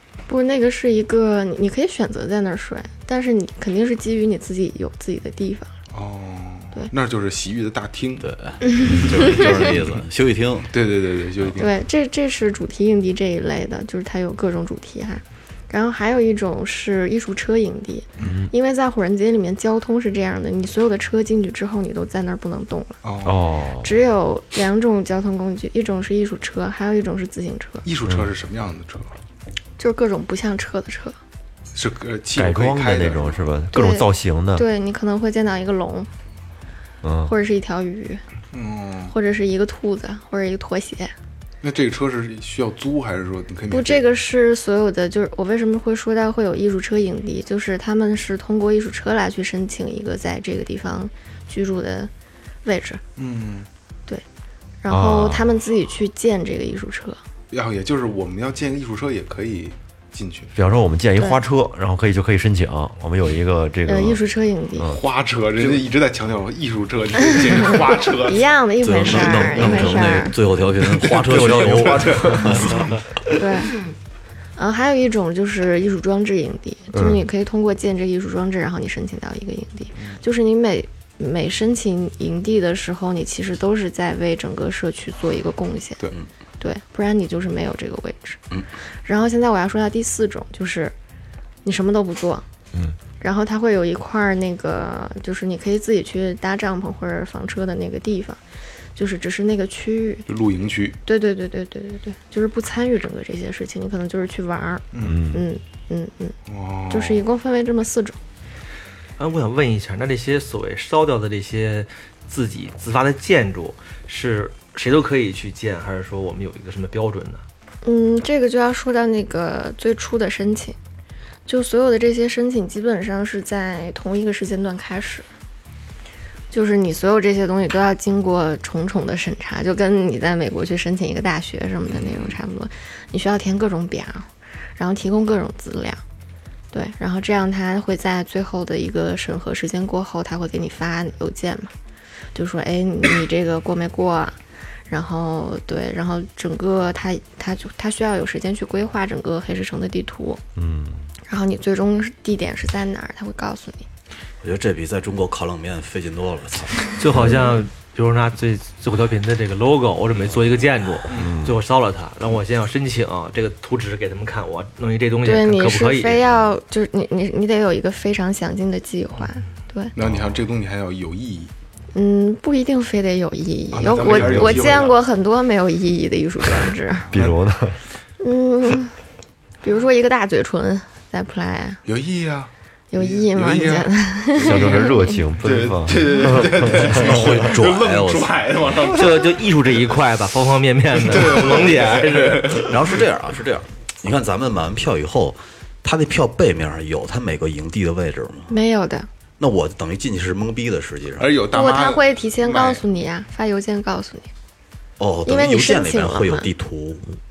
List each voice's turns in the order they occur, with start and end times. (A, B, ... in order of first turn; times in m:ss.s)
0:00.3-0:05.7 A
0:05.9-0:10.0 B
0:08.2-0:10.7 C
0:08.7-0:09.5 A
0:10.7-0:11.7 B
0:11.6-0:23.0 A
0:18.2-0:18.5 D
0:23.0-0:23.4 B
0:23.2-0:23.9 D
0:23.8-0:27.8 A
0:27.8-0:29.2 B
0:29.8-0:31.2 A
0:31.7-0:33.5 B
0:32.3-0:34.6 D
0:33.7-0:36.1 A
0:37.0-0:37.3 D
0:37.2-0:38.2 A
0:38.5-0:39.1 B
0:39.1-0:41.1 A
0:41.6-0:44.0 B
0:43.7-0:52.1 A
0:52.6-0:53.0 A
0:53.2-0:53.7 B
0:54.8-0:57.2 A
0:54.9-0:55.5 D
0:57.5-1:00.5 B
1:00.5-1:04.2 D
1:03.8-1:04.9 A
1:04.8-1:05.0 D
1:04.9-1:08.5 B
1:08.2-1:10.3 A
1:08.8-1:12.9 C
1:09.4-1:09.7 B
1:10.8-1:13.0 B
1:11.1-1:12.9 D
1:13.3-1:13.8 A
1:14.6-1:26.0 A
1:16.9-1:17.2 D
1:26.6-1:30.9 A
1:31.6-1:32.4 A
1:33.2-1:38.4 A
1:38.9-1:40.2 A
1:40.3-1:41.0 B
1:41.0-1:46.4 A
1:44.9-1:45.2 B
1:45.0-1:45.4 D
1:46.5-1:47.2 B
1:46.9-1:48.2 A
1:49.2-1:57.4 E
1:57.8-2:00.8 A
2:01.4-2:05.2 A
2:06.5-2:16.0 A
2:11.9-2:12.4 B
2:16.7-2:21.7 A
2:22.3-2:24.4 A
2:24.9-2:30.4 A
2:30.6-2:31.0 D
2:31.3-2:33.9 A
2:34.4-2:37.2 C
2:37.0-2:46.5 E
2:37.1-2:37.6 A
2:41.1-2:41.3 B
2:41.2-2:41.6 D
2:45.2-2:49.9 A
2:49.9-2:51.5 B
2:51.9-2:57.1 A
2:53.7-2:55.0 B
2:54.1-2:54.6 D
2:57.1-2:57.8 D
2:57.1-2:57.4 B
2:58.2-2:59.0 A
2:59.6-3:01.8 A
3:01.8-3:09.4 B
3:02.9-3:05.2 A
3:04.4-3:07.3 D
3:06.7-3:08.4 C
3:08.9-3:12.7 E
3:11.0-3:13.0 B
3:12.5-3:18.5 C
3:18.5-3:19.1 A
3:19.4-3:21.3 C
3:21.2-3:22.8 B
3:21.5-3:24.3 A
3:25.0-3:27.2 C
3:25.2-3:26.5 A